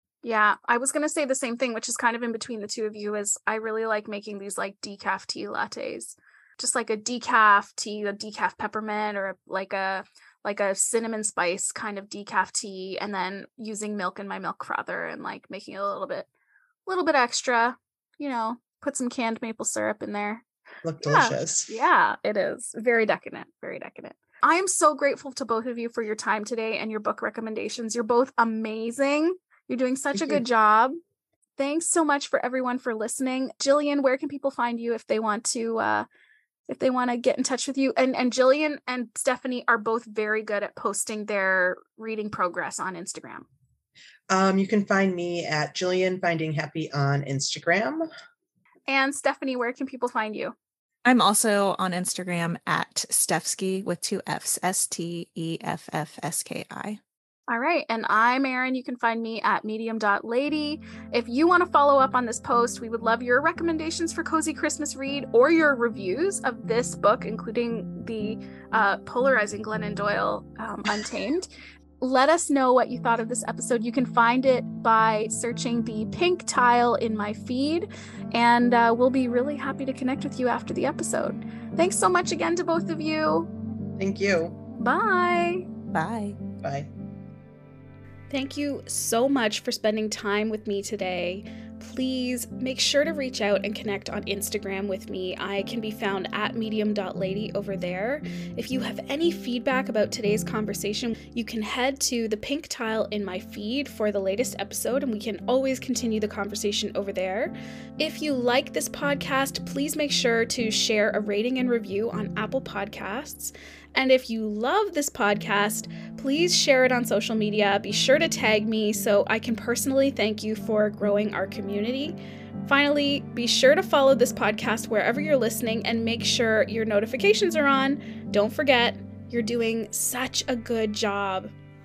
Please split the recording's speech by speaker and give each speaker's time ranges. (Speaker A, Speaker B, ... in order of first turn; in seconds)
Speaker A: 0.2-16.3, 16.9-20.4, 21.0-30.9, 31.6-36.1, 36.7-43.5, 48.9-50.5, 57.5-71.5, 72.0-83.5, 84.8-85.7, 88.3-131.5
Speaker B: 20.8-21.7, 30.1-30.4, 44.3-48.1, 84.0-84.5, 86.6-86.9
Speaker C: 51.0-57.0, 85.9-86.4